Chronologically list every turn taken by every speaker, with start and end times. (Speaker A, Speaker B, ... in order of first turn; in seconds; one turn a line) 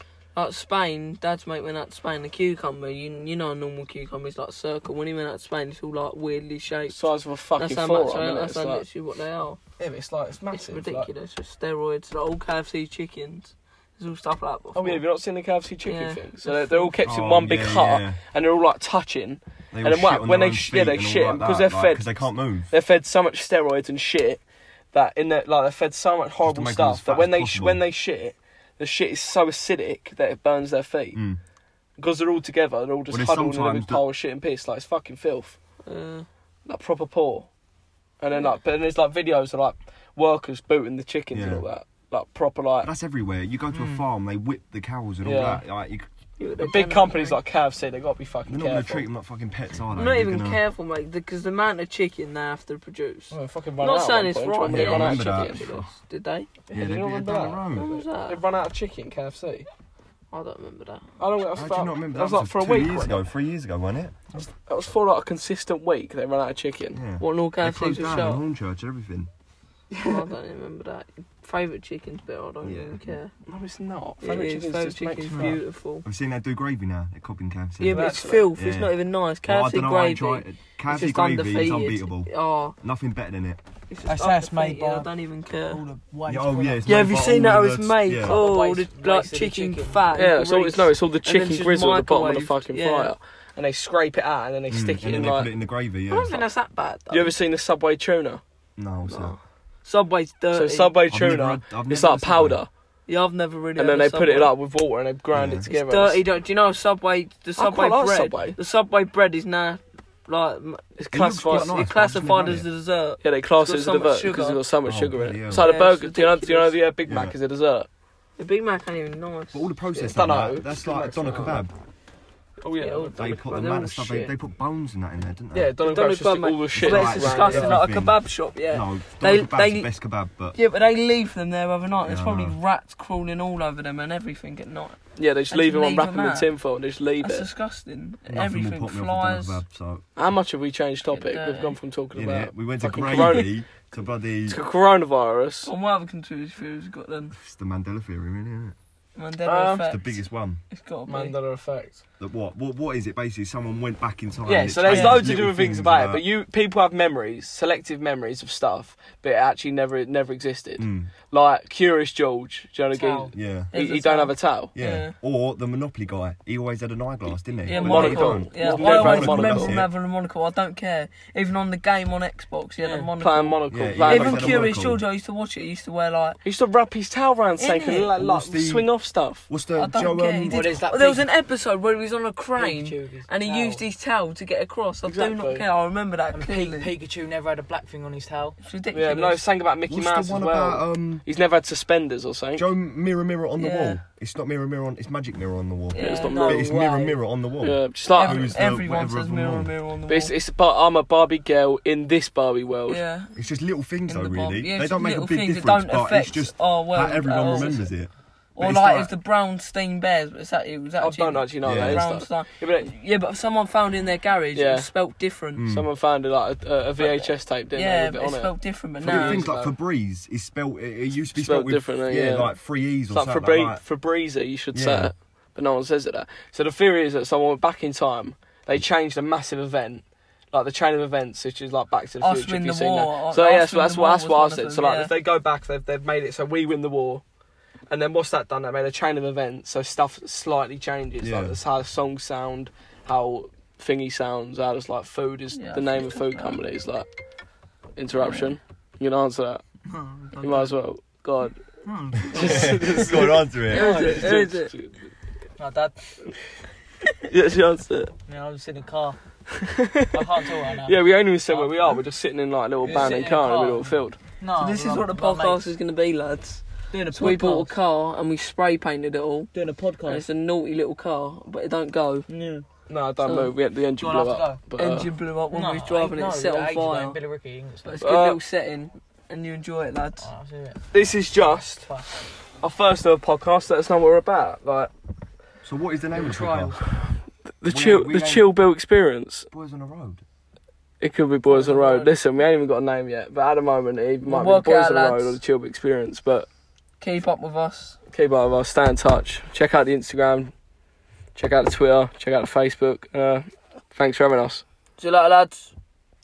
Speaker A: 0.3-9.6
Speaker B: 6.9-8.8
Speaker B: 9.8-11.1
Speaker A: 10.5-15.0
Speaker B: 14.7-31.2
Speaker A: 15.8-17.0
Speaker C: 17.0-18.2
Speaker C: 19.7-22.7
Speaker C: 26.4-27.8
Speaker C: 31.1-31.4
Speaker B: 32.0-35.6
Speaker C: 33.1-34.0
Speaker A: 35.8-36.3
Speaker B: 36.6-37.5
Speaker B: 38.2-42.9
Speaker C: 41.3-41.6
Speaker C: 42.8-46.1
Speaker D: 43.7-44.0
Speaker B: 45.2-45.6
Speaker A: 46.4-47.4
Speaker B: 46.6-49.1
Speaker C: 48.5-50.6
Speaker A: 49.9-56.5
Speaker B: 53.3-55.6
Speaker C: 54.6-55.9
Speaker B: 56.7-59.7
Speaker C: 56.7-57.9
Speaker A: 57.7-58.4
Speaker A: 60.3-61.0
Speaker B: 61.2-63.2
Speaker C: 61.5-64.1
Speaker B: 64.7-67.0
Speaker C: 66.9-69.3
Speaker A: 67.2-68.4
Speaker A: 70.0-73.3
Speaker C: 72.6-73.1
Speaker B: 73.4-75.6
Speaker A: 74.2-76.0
Speaker D: 75.3-75.6
Speaker C: 76.0-83.6
Speaker A: 77.8-82.8
Speaker B: 77.8-78.5
Speaker A: 83.9-85.8
Speaker D: 84.0-85.1
Speaker D: 85.6-86.8
Speaker C: 86.2-88.4
Speaker A: 86.8-93.1
Speaker D: 88.2-90.0
Speaker B: 90.1-95.5
Speaker C: 94.7-96.4
Speaker A: 96.1-97.3
Speaker B: 97.1-98.4
Speaker C: 98.8-99.3
Speaker A: 99.1-101.0
Speaker B: 100.5-102.7
Speaker C: 101.1-102.6
Speaker A: 103.1-104.5
Speaker B: 103.8-106.2
Speaker C: 105.3-105.7
Speaker A: 105.7-114.6
Speaker B: 107.6-108.6
Speaker B: 111.0-111.8
Speaker C: 111.1-112.7
Speaker B: 113.2-117.9
Speaker C: 114.8-115.7
Speaker A: 115.5-116.8
Speaker C: 117.1-117.3
Speaker A: 118.4-119.9
Speaker C: 119.5-121.7
Speaker B: 120.0-121.7
Speaker B: 122.6-123.1
Speaker A: 122.8-124.3
Speaker C: 123.2-125.7
Speaker B: 125.5-127.8
Speaker A: 125.8-129.9
Speaker C: 126.7-130.6
Speaker A: 130.5-135.0
Speaker C: 132.0-132.6
Speaker B: 135.2-137.5
Speaker A: 135.5-136.6
Speaker A: 137.2-139.6
Speaker C: 138.3-140.1
Speaker B: 140.2-143.5
Speaker A: 141.1-141.8
Speaker C: 142.1-144.6
Speaker B: 144.4-145.7
Speaker A: 145.6-147.3
Speaker C: 147.3-148.8
Speaker A: 149.2-151.3
Speaker B: 149.4-149.9
Speaker C: 149.9-150.6
Speaker B: 151.1-152.0
Speaker C: 152.2-156.2
Speaker B: 154.4-164.7
Speaker C: 160.8-161.1
Speaker D: 162.9-163.3
Speaker C: 163.3-163.7
Speaker A: 163.7-165.1
Speaker C: 164.7-169.9
Speaker A: 167.6-176.4
Speaker B: 167.7-169.8
Speaker D: 172.8-173.1
Speaker B: 173.2-174.7
Speaker C: 173.7-175.0
Speaker B: 176.4-179.4
Speaker A: 177.6-178.1
Speaker C: 178.2-178.9
Speaker C: 179.5-180.8
Speaker A: 179.8-186.9
Speaker D: 180.4-181.3
Speaker D: 182.6-183.8
Speaker B: 185.1-185.7
Speaker D: 186.3-188.6
Speaker A: 188.6-189.4
Speaker B: 188.9-192.7
Speaker C: 189.9-191.2
Speaker C: 192.6-199.7
Speaker A: 193.6-194.0
Speaker A: 195.9-196.5
Speaker B: 196.0-196.6
Speaker D: 196.2-197.2
Speaker B: 197.6-198.5
Speaker A: 198.1-200.3
Speaker B: 200.1-203.0
Speaker A: 202.9-203.3
Speaker C: 203.3-209.1
Speaker A: 204.1-207.9
Speaker A: 208.6-215.6
Speaker B: 211.0-212.9
Speaker C: 211.6-212.1
Speaker B: 214.5-214.9
Speaker C: 215.5-215.9
Speaker B: 215.7-219.8
Speaker A: 217.0-219.4
Speaker C: 219.0-223.8
Speaker B: 221.3-222.5
Speaker B: 223.1-237.2
Speaker C: 224.7-225.1
Speaker A: 232.2-235.1
Speaker B: 237.9-247.1
Speaker C: 241.2-241.6
Speaker A: 245.5-246.6
Speaker B: 247.9-249.6
Speaker A: 248.2-248.5
Speaker D: 249.9-250.8
Speaker B: 250.4-251.6
Speaker D: 251.8-254.3
Speaker B: 252.3-255.1
Speaker C: 252.3-254.0
Speaker A: 253.7-254.7
Speaker D: 255.6-256.3
Speaker B: 257.3-258.1
Speaker D: 258.2-259.2
Speaker D: 260.1-261.8
Speaker B: 260.8-264.2
Speaker D: 262.8-265.7
Speaker A: 264.6-269.5
Speaker D: 266.9-267.7
Speaker D: 269.5-270.2
Speaker A: 270.0-272.3
Speaker D: 272.3-272.6
Speaker B: 272.8-275.1
Speaker A: 273.2-273.5
Speaker D: 274.0-274.6
Speaker A: 274.8-277.2
Speaker D: 275.5-278.1
Speaker A: 277.8-280.3
Speaker B: 278.0-278.4
Speaker D: 280.2-282.2
Speaker B: 280.9-281.9
Speaker B: 282.6-284.9
Speaker C: 285.6-286.8
Speaker D: 286.1-286.9
Speaker B: 287.6-289.5
Speaker C: 287.6-288.5
Speaker C: 289.5-290.2
Speaker B: 291.0-296.5
Speaker A: 291.4-292.1
Speaker A: 294.2-295.4
Speaker A: 297.0-298.0
Speaker B: 298.1-300.5
Speaker B: 301.3-304.6
Speaker A: 305.0-305.7